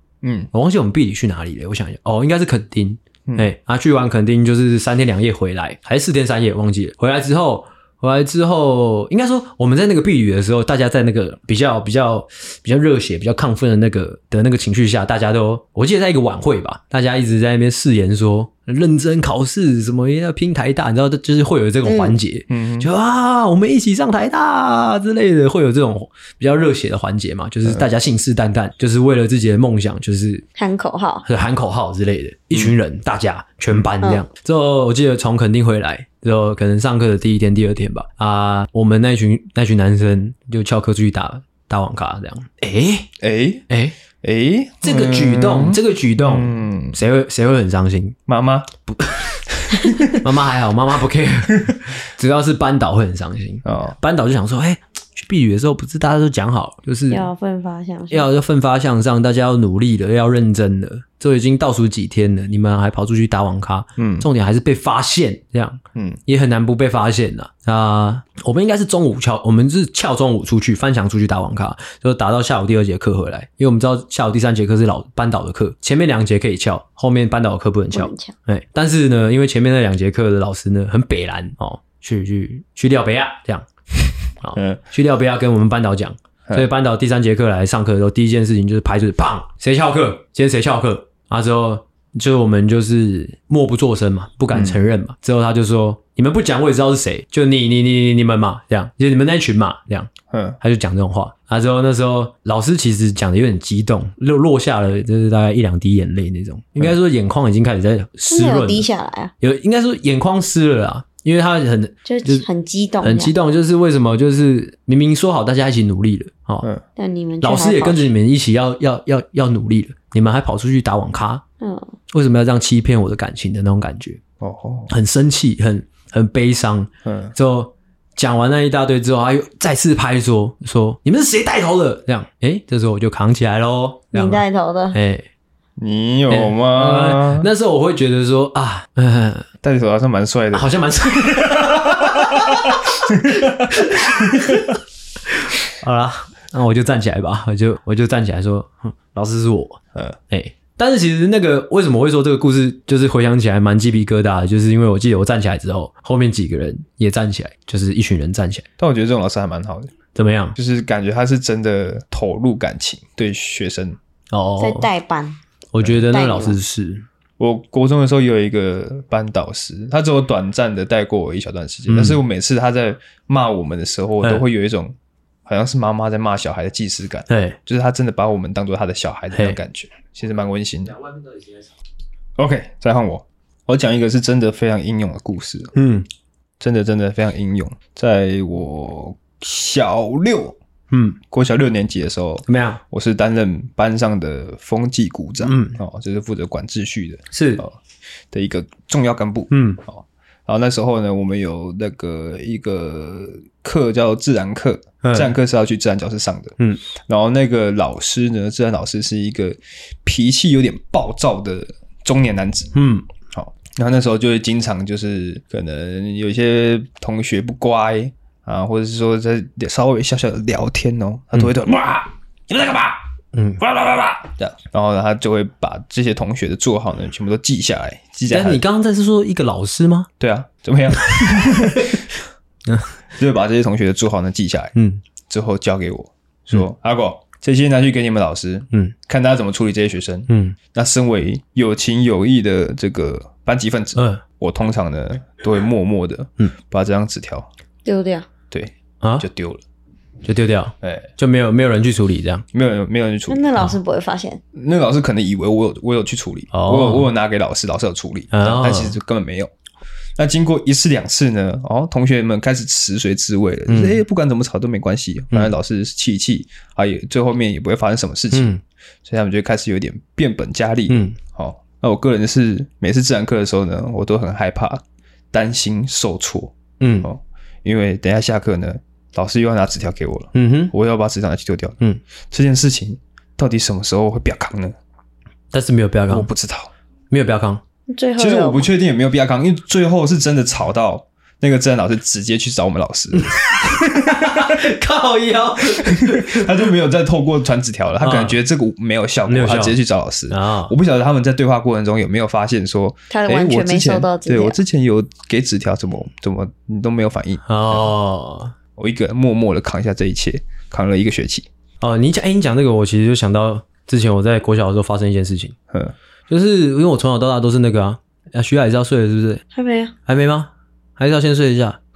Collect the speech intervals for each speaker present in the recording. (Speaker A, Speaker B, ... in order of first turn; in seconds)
Speaker A: 0.2-0.5, 22.5-22.9, 43.2-43.6, 44.2-47.0, 48.3-48.7, 49.7-50.3, 53.6-54.0, 64.0-64.3, 66.0-66.2, 84.5-84.8, 94.5-94.8, 100.3-100.6, 124.4-124.9, 127.0-127.3, 135.8-137.5, 139.6-140.7, 141.4-144.7, 158.8-159.9, 160.6-164.0, 167.4-181.0, 182.4-185.7, 186.6-190.6, 191.3-197.8, 198.3-206.6, 207.1-212.7, 213.3-223.0, 223.6-228.6, 230.2-232.0, 233.1-234.7, 235.3-247.5, 248.5-249.6, 250.8-251.1, 252.5-253.4, 254.5-259.5, 260.2-268.5, 269.1-281.8, 282.3-284.7, 286.1-286.7, 288.2-294.6, 295.7-307.9, 308.8-311.5
Speaker B: 0.5-30.5, 31.2-43.1, 43.7-44.0, 44.8-48.2, 48.9-49.4, 50.0-57.3, 58.1-100.1, 100.6-108.9, 109.4-112.5, 113.0-116.7, 117.4-121.4, 122.1-124.2, 124.9-135.3, 136.3-139.5, 140.5-144.7, 145.3-149.8, 150.3-158.7, 160.2-160.6, 164.3-164.9, 165.7-167.1, 171.9-172.2, 177.3-177.6, 179.3-179.6, 185.8-186.1, 190.9-191.2, 192.5-192.8, 195.4-195.8, 197.3-197.6, 199.5-199.8, 205.0-205.3, 212.8-213.1, 223.3-223.6, 228.3-230.1, 231.0-232.0, 232.7-232.9, 234.8-235.0, 240.3-240.6, 244.0-244.2, 249.0-249.3, 250.2-252.4, 256.5-257.1, 258.3-259.0, 263.7-264.0, 268.3-268.6, 270.9-271.2, 276.8-277.1, 280.3-280.7, 285.5-286.3, 287.1-287.6, 293.2-296.6, 298.0-298.4, 299.3-299.8, 300.3-300.7, 307.5-308.5, 311.8-315.6, 316.3-319.4, 320.1-321.8
Speaker C: 21.9-22.2, 30.6-31.2, 57.1-58.3, 77.9-78.3, 108.3-109.3, 112.0-113.3, 117.0-118.1, 121.6-121.9, 134.1-135.0, 164.6-165.4, 166.1-166.6, 247.8-248.3, 253.3-254.4, 287.9-288.7, 303.1-304.6, 319.5-319.9